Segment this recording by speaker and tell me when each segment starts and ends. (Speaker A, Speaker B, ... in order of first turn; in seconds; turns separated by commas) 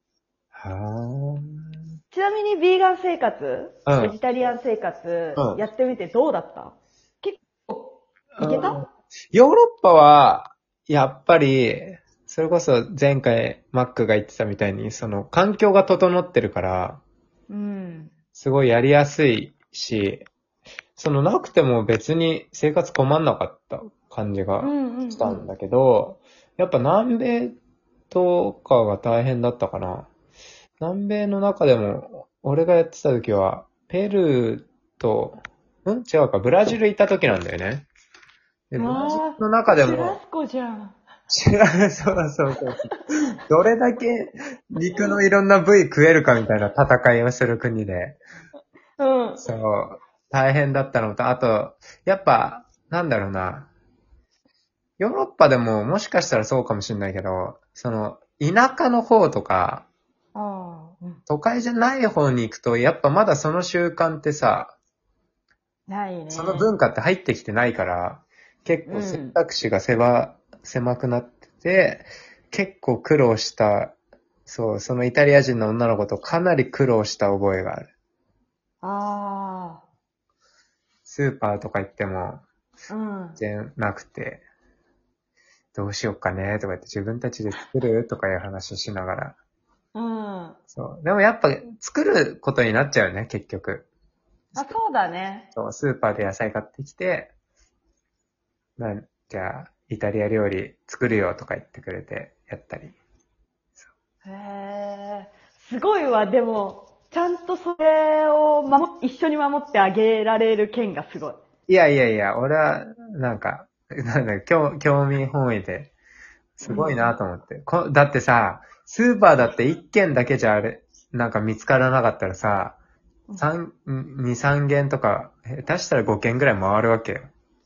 Speaker A: 0.5-1.8, Speaker B: 2.1-8.8, Speaker A: 3.9-4.1, Speaker A: 5.3-5.6, Speaker A: 8.3-17.0, Speaker B: 17.5-18.1, Speaker A: 18.3-20.2, Speaker A: 20.9-27.6, Speaker B: 24.6-25.4, Speaker A: 28.1-30.1, Speaker A: 30.8-37.9, Speaker A: 38.7-40.2, Speaker B: 38.8-41.0, Speaker A: 41.3-48.2, Speaker B: 49.0-49.4, Speaker A: 49.4-53.7, Speaker A: 55.0-59.9, Speaker B: 60.3-61.2, Speaker A: 61.3-64.7, Speaker B: 65.9-66.7, Speaker A: 66.3-77.9, Speaker B: 68.9-69.4, Speaker B: 78.8-79.8, Speaker A: 81.0-82.4, Speaker B: 82.9-83.4, Speaker A: 83.4-84.4, Speaker A: 85.7-89.4, Speaker B: 89.9-90.6, Speaker A: 90.7-93.9, Speaker B: 94.5-95.5, Speaker A: 95.5-97.3, Speaker A: 98.8-103.0, Speaker B: 104.2-111.4, Speaker A: 111.7-115.9, Speaker A: 116.6-122.8, Speaker B: 116.6-117.2, Speaker A: 123.4-127.3